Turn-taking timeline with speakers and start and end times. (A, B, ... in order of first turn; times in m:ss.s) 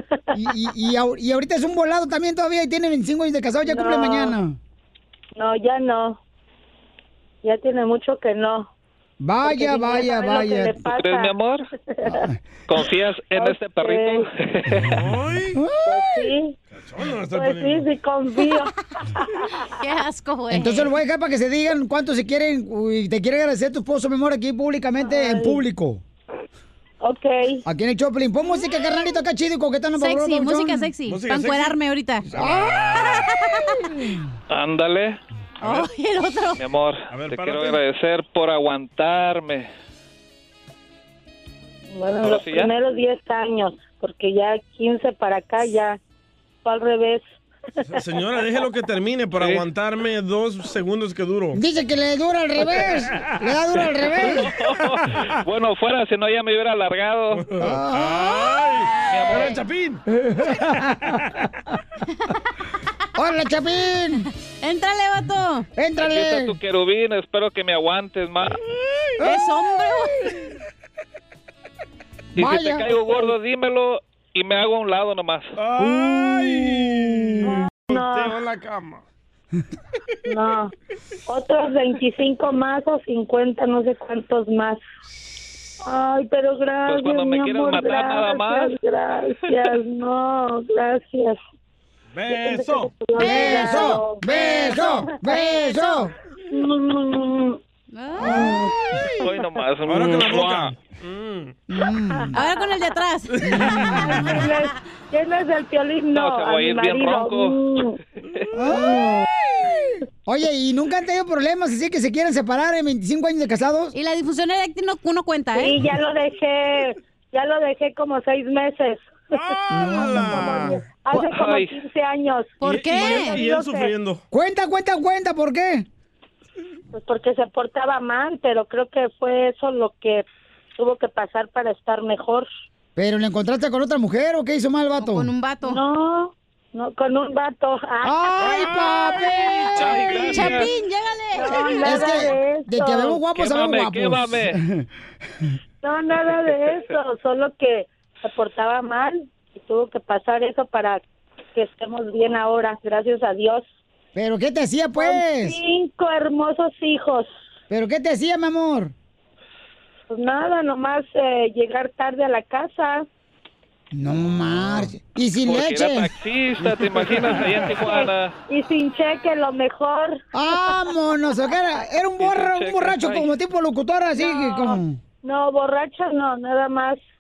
0:00.3-0:04.6 A
0:03.6-0:04.4 B
0:05.4-0:06.2 B
0:07.4-0:08.7 B
0:09.2-0:10.8 A
0:09.4-0:11.3 B
0:10.9-0:11.7 C
0:11.9-0:12.3 B
0:12.7-0:15.0 C
0:13.3-0:14.3 B
0:14.8-0:15.6 D
0:15.5-0:16.3 A
0:15.8-0:16.5 B
0:16.7-0:17.9 D
0:17.3-0:19.2 B
0:19.8-0:20.9 E
0:20.5-0:26.0 A
0:25.0-0:25.6 B
0:27.0-0:27.6 B
0:27.6-0:30.9 A
0:30.0-0:32.3 E
0:31.0-0:31.8 D
0:32.3-0:33.2 D
0:32.3-0:33.0 A
0:32.9-0:33.7 E
0:34.5-0:35.2 C
0:35.6-0:36.6 E
0:36.6-0:39.7 C
0:37.1-0:37.8 D
0:41.9-0:46.0 B
0:42.2-0:42.7 C
0:46.6-0:47.2 B
0:47.9-0:51.6 D
0:51.5-0:54.5 A
0:52.6-0:53.4 D
0:54.2-0:57.5 C
0:54.7-0:55.3 D
0:57.3-1:00.0 D
0:57.6-0:58.5 A
0:58.2-0:59.6 E
0:59.1-0:59.5 C
1:00.1-1:01.3 A
1:03.2-1:04.3 A
1:04.6-1:05.7 E
1:05.8-1:06.5 A
1:06.0-1:08.6 C
1:09.2-1:10.1 E
1:12.4-1:13.0 A
1:12.4-1:15.5 C
1:15.6-1:19.0 D
1:15.8-1:17.5 A
1:17.4-1:18.4 B
1:20.3-1:20.7 B
1:21.3-1:24.8 B
1:25.8-1:31.4 B
1:26.8-1:28.7 C
1:32.1-1:33.9 D
1:32.3-1:35.5 B
1:33.2-1:36.1 A
1:35.4-1:36.0 E
1:36.5-1:37.6 B
1:37.9-1:38.6 E
1:38.2-1:38.7 A
1:39.2-1:40.7 C
1:39.8-1:41.6 D
1:41.7-1:42.4 A
1:42.3-1:43.6 E
1:43.4-1:43.8 D
1:43.4-1:44.5 A
1:43.9-1:48.0 B
1:46.1-1:47.6 C
1:48.5-1:49.2 A
1:50.2-1:53.9 A
1:53.9-1:55.8 E
1:55.5-1:59.1 B
1:59.3-2:00.9 D
1:59.7-2:00.8 A
2:00.0-2:03.9 B
2:01.2-2:01.8 C
2:02.6-2:03.4 E
2:02.6-2:04.2 D
2:04.3-2:05.8 A
2:06.9-2:10.2 B
2:10.8-2:12.5 B
2:13.0-2:15.3 A
2:15.0-2:15.8 E
2:15.6-2:18.5 B
2:18.0-2:20.4 A
2:18.4-2:19.1 D
2:19.8-2:20.6 D
2:19.8-2:20.6 C
2:19.9-2:22.1 E
2:21.4-2:23.2 B
2:21.8-2:24.9 A
2:23.3-2:24.6 C
2:25.8-2:31.0 B
2:31.5-2:33.6 B
2:34.1-2:35.6 A
2:35.0-2:37.3 B
2:37.7-2:38.9 A
2:40.1-2:43.0 B
2:43.9-2:46.1 A
2:44.2-2:44.9 D
2:45.4-2:48.4 C
2:46.6-2:47.3 D
2:47.8-2:50.2 B
2:50.3-2:55.0 A
2:52.2-2:53.3 C
2:54.2-2:57.0 B